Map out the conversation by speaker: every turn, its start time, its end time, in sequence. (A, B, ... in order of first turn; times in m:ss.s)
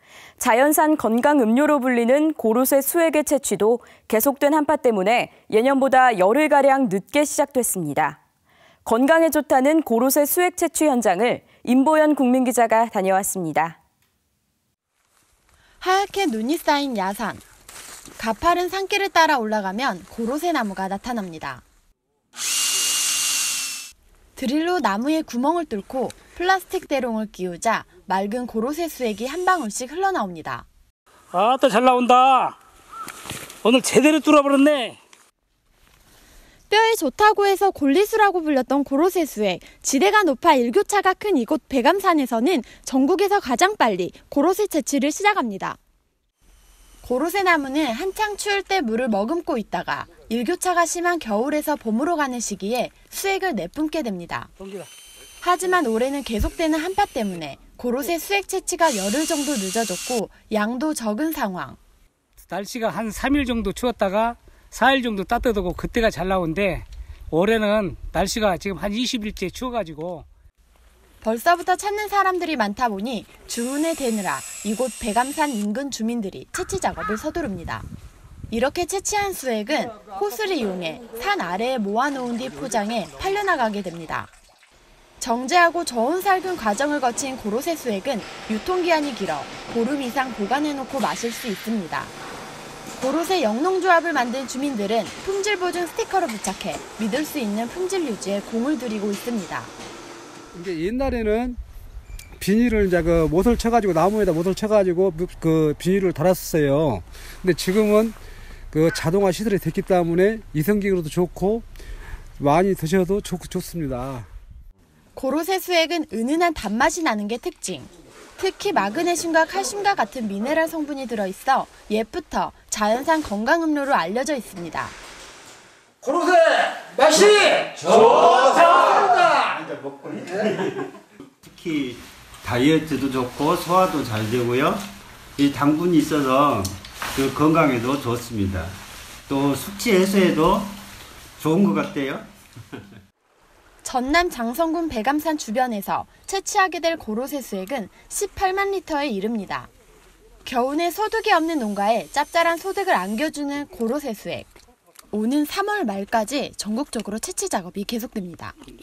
0:00.4-0:08.2 A
0:08.8-0:13.8 A
0:15.8-0:17.4 B
0:18.2-0:21.6 B
0:24.4-0:30.6 B
0:31.3-0:32.6 C
0:33.6-0:35.0 C
0:36.7-0:45.8 B
0:47.0-0:54.5 B
0:54.6-0:54.9 C
0:55.4-1:01.8 B
1:02.5-1:10.3 C
1:11.2-1:17.8 B
1:18.5-1:24.3 B
1:25.2-1:32.1 B
1:33.0-1:39.7 B
1:40.5-1:41.6 D
1:42.4-1:48.2 D
1:48.7-1:51.6 D
1:52.4-1:54.3 D
1:55.2-2:04.9 B
2:06.0-2:06.7 C
2:07.0-2:18.7 E
2:19.3-2:20.8 E
2:21.4-2:22.3 E
2:23.8-2:29.7 B
2:30.4-2:34.5 B
2:35.1-2:38.6 B